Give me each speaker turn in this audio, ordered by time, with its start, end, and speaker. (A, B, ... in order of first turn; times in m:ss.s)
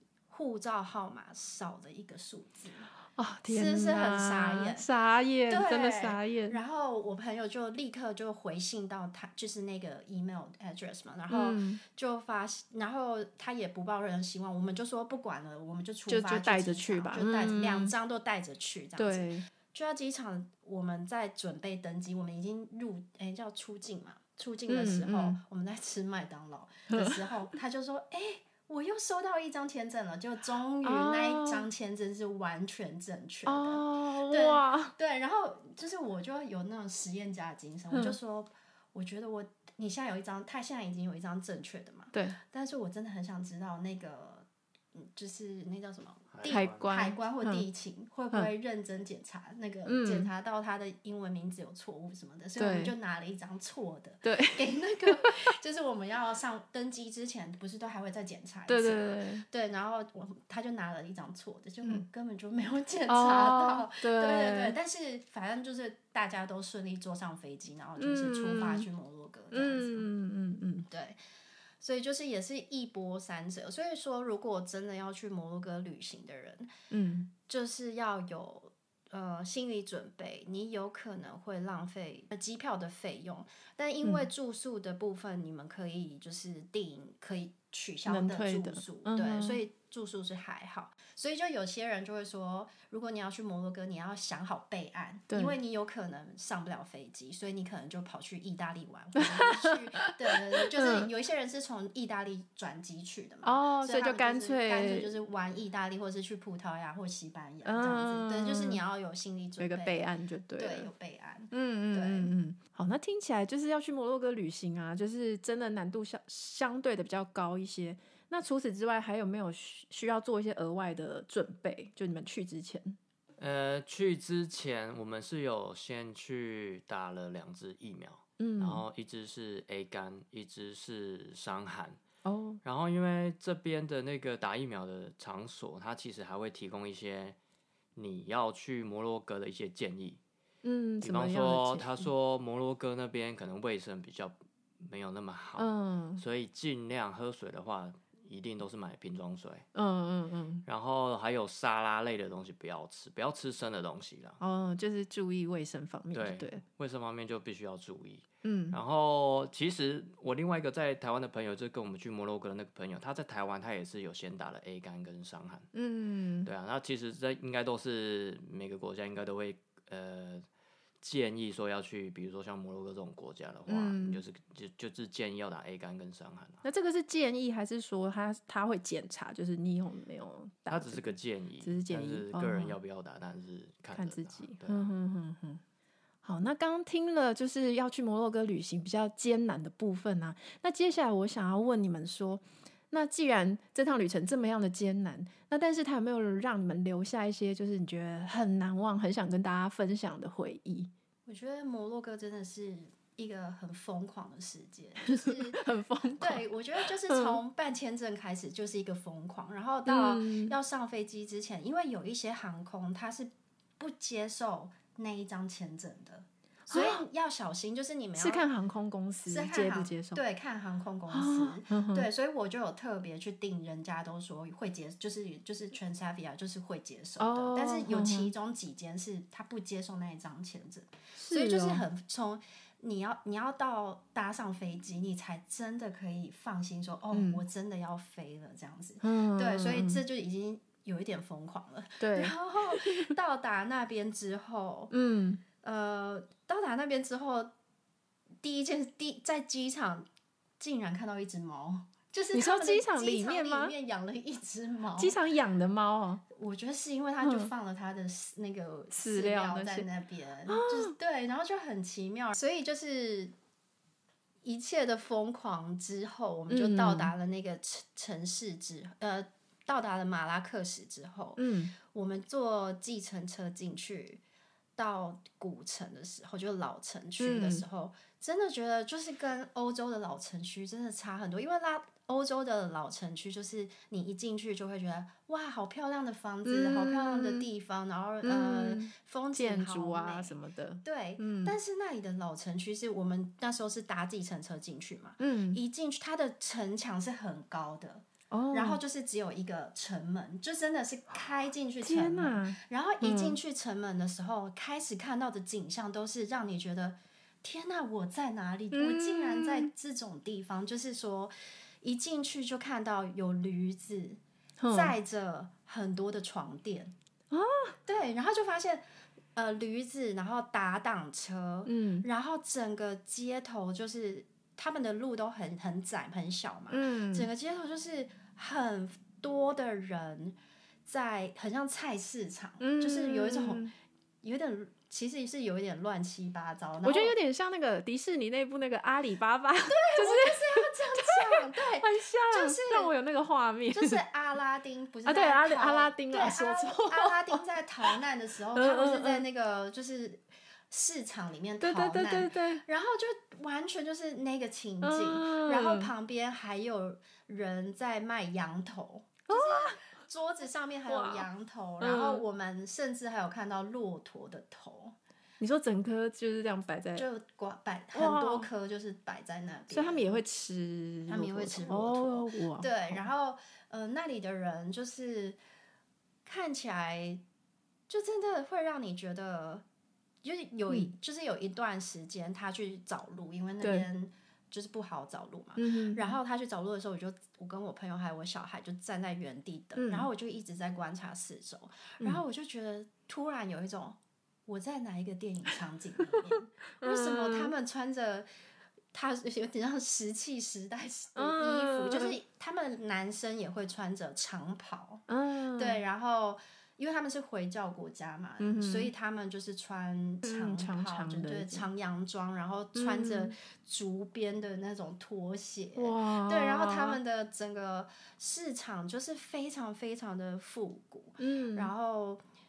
0:00.3-0:02.9 A
0:03.1-0:06.6 B
0:03.5-0:04.9 A
0:05.5-1:10.1 A
0:11.3-0:11.8 B
0:16.1-0:17.9 B
0:19.0-0:19.5 B
0:24.7-0:25.4 B
0:26.9-0:27.3 B
0:30.8-0:31.7 B
0:33.5-0:35.0 B
0:46.3-0:46.9 C
0:46.4-0:47.6 B
0:49.9-0:50.3 B
0:52.6-0:52.9 B
0:54.2-0:55.4 B
0:58.7-0:59.5 B
1:03.1-1:04.8 B
1:08.0-1:08.9 B
1:09.5-1:10.9 B
1:10.9-1:11.2 A
1:11.8-1:16.7 A
1:16.9-1:17.3 B
1:17.4-1:50.0 A
1:28.1-1:29.6 B
1:35.3-1:35.6 B
1:39.2-1:41.1 B
1:43.4-1:45.1 B
1:47.6-1:48.8 B
1:49.6-1:50.9 B
1:50.6-1:52.3 A
1:51.5-2:03.0 B
2:03.4-2:12.0 C
2:08.4-2:08.8 B
2:12.2-2:12.6 B
2:12.6-2:17.4 C
2:18.0-2:20.2 C
2:20.6-2:22.1 B
2:21.0-2:29.7 C
2:25.6-2:26.2 B
2:29.7-2:30.6 B
2:30.6-2:34.4 C
2:34.4-2:36.6 B
2:36.1-2:45.7 C
2:38.4-2:38.8 B
2:45.7-2:46.5 B
2:46.4-2:50.5 C
2:51.0-2:56.6 C
2:53.7-2:54.2 B
2:56.6-3:02.8 B
3:00.7-3:04.9 C
3:03.9-3:05.6 B
3:06.2-3:20.9 B
3:21.2-3:38.4 A
3:25.0-3:27.4 B
3:29.9-3:30.5 B
3:36.7-3:37.0 B
3:38.2-3:40.2 B
3:39.3-4:04.9 A
3:41.1-3:42.1 B
3:47.2-3:48.3 B
3:51.2-3:51.8 B
3:57.1-3:57.4 B
3:59.0-4:00.0 B
4:02.0-4:03.1 B
4:04.9-4:05.4 B
4:05.6-4:07.5 A
4:08.4-4:10.1 A
4:10.6-4:15.2 A
4:12.3-4:13.7 B
4:15.0-4:16.2 B
4:16.3-4:23.3 A
4:17.2-4:17.5 B
4:18.9-4:19.9 B
4:20.5-4:21.0 B
4:24.4-4:34.2 A
4:26.5-4:27.1 B
4:31.4-4:31.7 B
4:34.8-5:16.9 A
4:37.2-4:37.6 B
4:46.4-4:47.5 B
4:48.2-4:51.6 B
4:55.2-4:55.6 B
4:58.3-4:58.8 B
5:01.8-5:03.4 B
5:08.7-5:09.7 B
5:14.6-5:15.0 B
5:17.3-5:17.8 B
5:17.9-5:18.8 A
5:19.4-5:33.7 A
5:21.6-5:22.1 B
5:26.7-5:27.3 B
5:32.6-5:33.7 B
5:34.2-5:37.1 A
5:36.8-5:44.0 B
5:39.7-5:42.9 A
5:43.7-6:05.0 A
5:45.1-5:48.0 B
5:48.5-5:49.2 B
5:51.6-5:52.6 B
5:54.8-5:55.9 B
5:59.3-5:59.9 B
6:00.9-6:01.3 B
6:01.8-6:02.2 B
6:05.4-6:07.1 B
6:07.0-6:10.1 A
6:07.9-6:08.5 B
6:09.7-6:13.0 B
6:11.1-6:15.4 A
6:16.2-6:17.2 A
6:17.9-6:19.6 A
6:20.2-6:38.3 A
6:23.6-6:23.9 B
6:25.6-6:26.2 B
6:29.8-6:30.1 B
6:36.8-6:37.5 B
6:38.9-7:02.2 A
6:41.2-6:42.2 B
6:45.1-6:45.8 B
6:48.4-6:48.9 B
6:50.2-6:51.7 B
6:52.8-6:53.4 B
6:55.8-6:57.0 B
7:01.2-7:01.7 B